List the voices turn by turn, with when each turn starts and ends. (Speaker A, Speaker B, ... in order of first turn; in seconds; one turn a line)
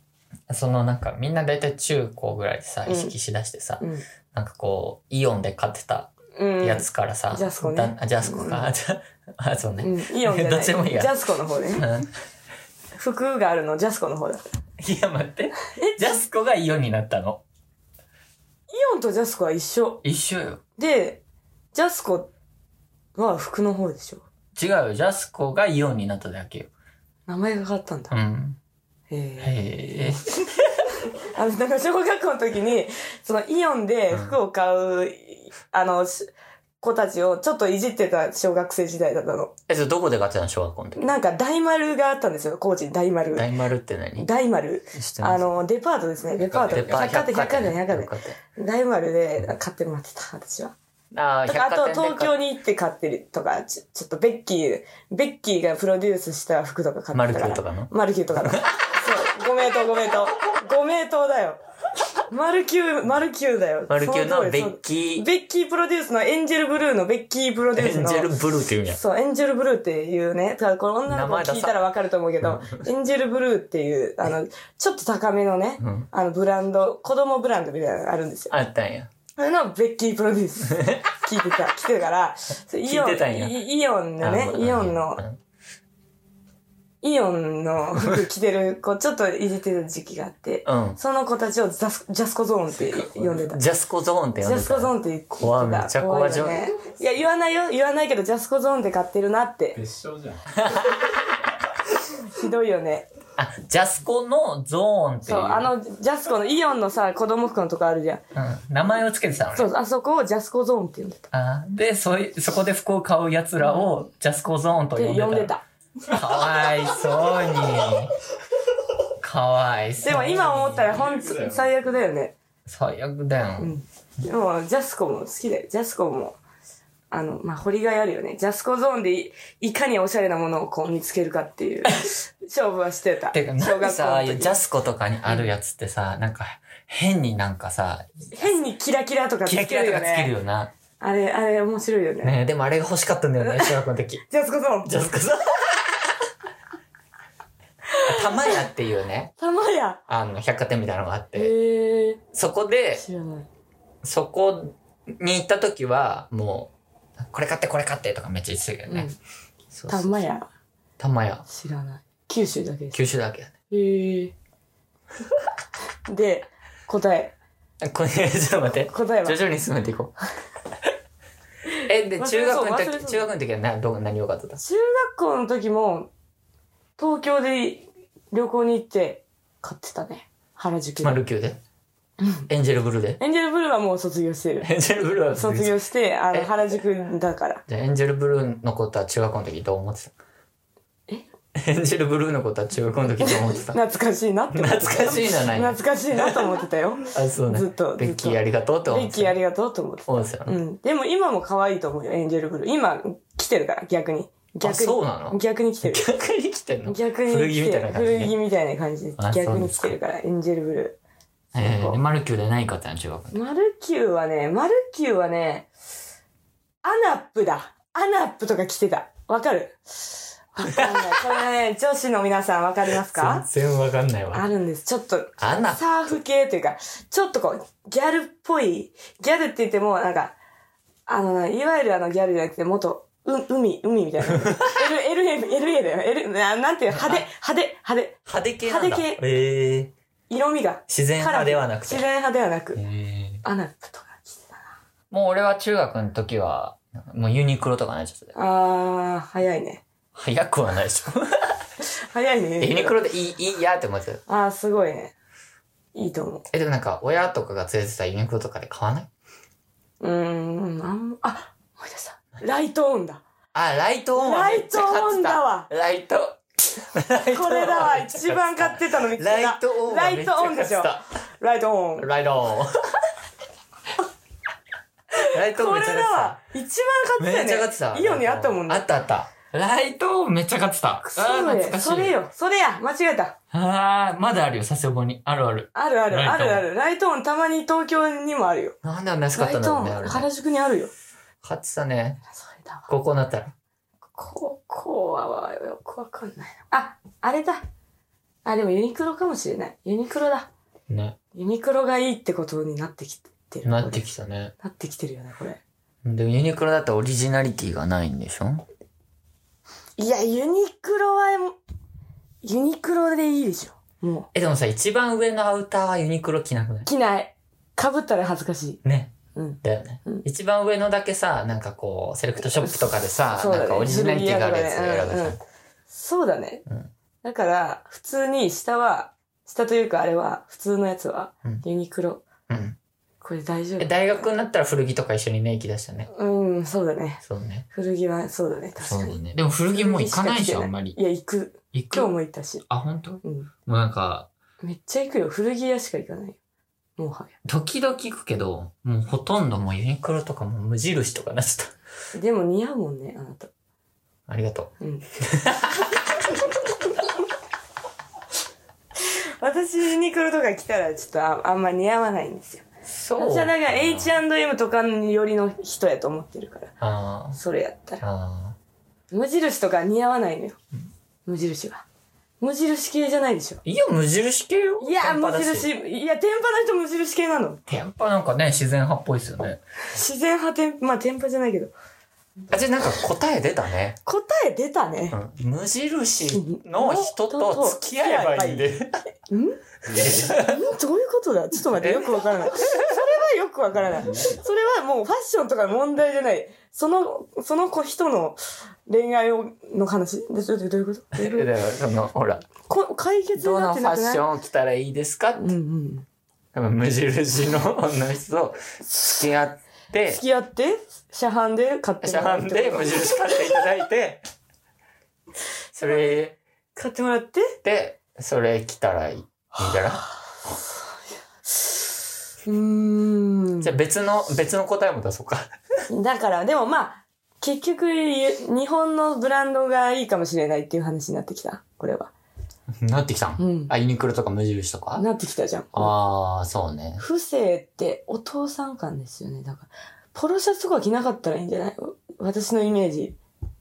Speaker A: 0.5-11.1
Speaker B: 2.9-3.1
Speaker B: 6.3-8.7
Speaker B: 9.8-11.9
Speaker A: 11.7-12.1
Speaker B: 12.9-14.5
Speaker A: 14.8-17.4
Speaker B: 15.8-16.0
Speaker B: 18.7-20.0
Speaker A: 20.0-20.6
Speaker B: 20.8-21.2
Speaker B: 21.7-22.3
Speaker B: 23.1-24.2
Speaker A: 24.6-26.7
Speaker B: 27.3-28.1
Speaker A: 28.1-28.6
Speaker B: 29.1-30.5
Speaker A: 29.4-30.9
Speaker B: 31.1-39.5
Speaker A: 34.1-34.4
Speaker A: 39.7-41.1
Speaker B: 41.0-43.5
Speaker A: 43.4-44.3
Speaker B: 44.2-50.7
Speaker A: 44.9-45.5
Speaker A: 46.5-48.4
Speaker C: 46.6-47.0
Speaker A: 51.1-52.4
Speaker B: 51.5-61.6
Speaker A: 57.1-58.7
Speaker B: 62.3-68.3
Speaker A: 63.9-65.2
Speaker A: 67.7-69.0
Speaker B: 68.9-78.5
Speaker A: 71.1-71.8
Speaker A: 72.4-72.8
Speaker A: 75.8-76.1
Speaker A: 78.5-79.1
Speaker B: 79.4-85.2
Speaker A: 80.7-81.0
Speaker A: 82.9-83.6
Speaker A: 84.2-85.4
Speaker B: 87.0-93.6
Speaker A: 90.6-91.0
Speaker A: 92.8-96.7
Speaker B: 94.4-99.8
Speaker C: 99.8-100.8
Speaker A: 100.5-101.3
Speaker B: 102.2-103.1
Speaker A: 103.4-105.7
Speaker B: 105.2-108.2
Speaker A: 108.3-109.7
Speaker B: 109.5-111.3
Speaker A: 111.3-115.5
Speaker B: 113.6-113.9
Speaker B: 114.9-115.6
Speaker A: 116.0-118.1
Speaker A: 119.2-121.1
Speaker B: 120.0-122.3
Speaker C: 120.9-121.7
Speaker A: 122.7-123.7
Speaker B: 123.6-126.4
Speaker B: 127.1-134.5
Speaker A: 133.3-138.5
Speaker B: 138.3-140.3
Speaker A: 139.4-140.7
Speaker B: 141.0-142.4
Speaker A: 142.2-144.2
Speaker B: 143.4-143.8
Speaker B: 144.3-144.9
Speaker A: 144.8-146.2
Speaker B: 147.9-148.6
Speaker A: 148.0-149.3
Speaker B: 149.4-150.0
Speaker A: 150.1-151.5
Speaker B: 151.3-152.2
Speaker A: 152.3-153.0
Speaker B: 153.0-153.5
Speaker A: 154.0-159.1
Speaker B: 158.9-159.2
Speaker A: 159.7-160.2
Speaker B: 159.9-160.5
Speaker A: 161.0-161.4
Speaker B: 161.5-163.0
Speaker A: 162.9-163.5
Speaker B: 163.7-164.3
Speaker B: 166.1-167.3
Speaker A: 167.8-170.1
Speaker B: 168.9-169.4
Speaker B: 171.7-173.3
Speaker A: 171.8-174.6
Speaker B: 174.6-176.1
Speaker B: 177.0-181.2
Speaker A: 181.0-181.6
Speaker B: 182.2-182.5
Speaker A: 182.5-183.2
Speaker B: 183.2-184.7
Speaker A: 184.6-185.8
Speaker B: 185.3-187.6
Speaker A: 187.7-190.1
Speaker A: 191.5-193.8
Speaker B: 193.2-206.0
Speaker A: 194.5-199.4
Speaker A: 200.1-200.6
Speaker A: 204.6-208.3
Speaker B: 206.9-211.0
Speaker A: 209.2-210.0
Speaker A: 211.5-213.4
Speaker B: 211.6-212.0
Speaker B: 213.3-215.7
Speaker B: 216.8-223.5
Speaker A: 220.6-221.3
Speaker A: 223.1-224.5
Speaker B: 224.3-230.3
Speaker A: 225.4-226.2
Speaker B: 231.1-239.2
Speaker A: 234.4-234.9
Speaker A: 236.9-237.2
Speaker A: 238.3-239.9
Speaker B: 240.3-242.8
Speaker A: 240.9-242.1
Speaker A: 242.8-243.4
Speaker B: 243.4-244.7
Speaker A: 245.1-248.3
Speaker B: 248.3-249.8
Speaker A: 250.1-251.6
Speaker B: 252.1-252.9
Speaker A: 252.6-254.2
Speaker B: 254.3-255.1
Speaker B: 255.9-256.4
Speaker A: 256.5-259.1
Speaker B: 260.0-263.2
Speaker A: 263.5-271.0
Speaker B: 264.1-265.7
Speaker B: 267.3-272.1
Speaker A: 272.0-272.7
Speaker B: 275.1-278.9
Speaker A: 275.2-276.4
Speaker A: 277.2-282.2
Speaker B: 281.0-283.4
Speaker A: 283.5-286.6
Speaker B: 285.7-288.8
Speaker A: 288.8-290.3
Speaker B: 289.4-290.9
Speaker A: 291.4-292.2
Speaker B: 292.4-292.9
Speaker A: 292.9-293.5
Speaker B: 294.1-297.6
Speaker B: 298.4-300.5
Speaker A: 300.9-301.2
Speaker B: 301.3-304.0
Speaker A: 303.6-304.5
Speaker B: 304.6-305.6
Speaker A: 306.0-308.6
Speaker B: 310.0-311.6
Speaker B: 312.4-314.3
Speaker A: 314.3-316.9
Speaker B: 316.9-318.8
Speaker A: 318.8-325.4
Speaker B: 319.4-320.2
Speaker B: 322.6-325.4
Speaker B: 325.9-326.6
Speaker B: 327.2-332.2
Speaker A: 332.5-332.8
Speaker B: 333.2-334.0
Speaker A: 333.8-336.1
Speaker B: 336.1-339.2
Speaker A: 337.2-337.6
Speaker A: 338.8-341.0
Speaker B: 339.7-342.6
Speaker A: 341.7-342.1
Speaker A: 342.7-344.3
Speaker B: 343.2-343.5
Speaker B: 344.6-346.4
Speaker B: 347.0-347.3
Speaker A: 347.4-351.7
Speaker B: 352.1-353.5
Speaker A: 354.3-356.0
Speaker B: 359.0-362.6
Speaker A: 362.9-364.2
Speaker B: 363.1-366.7
Speaker A: 366.8-367.4
Speaker B: 367.3-368.0
Speaker A: 368.0-368.6
Speaker B: 369.1-370.6
Speaker B: 371.2-371.9
Speaker B: 372.4-373.6
Speaker A: 373.6-375.7
Speaker B: 374.8-377.6
Speaker A: 377.7-379.6
Speaker B: 379.9-381.7
Speaker A: 382.5-384.0
Speaker B: 384.1-385.2
Speaker A: 385.1-388.9
Speaker B: 386.3-388.7
Speaker B: 389.3-389.6
Speaker C: 389.9-390.3
Speaker A: 390.0-390.6
Speaker B: 390.3-401.5
Speaker A: 391.8-392.9
Speaker A: 401.1-402.5
Speaker B: 402.6-404.2
Speaker A: 403.4-405.5
Speaker B: 405.4-406.1
Speaker A: 406.5-410.2
Speaker B: 408.9-409.1
Speaker B: 410.1-413.3
Speaker A: 412.0-414.2
Speaker A: 415.8-416.4
Speaker B: 415.8-416.1
Speaker B: 416.8-417.6
Speaker A: 417.6-420.0
Speaker B: 419.7-420.0
Speaker B: 422.4-423.7
Speaker A: 423.6-425.5
Speaker B: 425.9-432.1
Speaker A: 432.8-435.0
Speaker B: 433.4-433.7
Speaker B: 435.0-435.9
Speaker A: 435.7-437.0
Speaker B: 437.0-443.2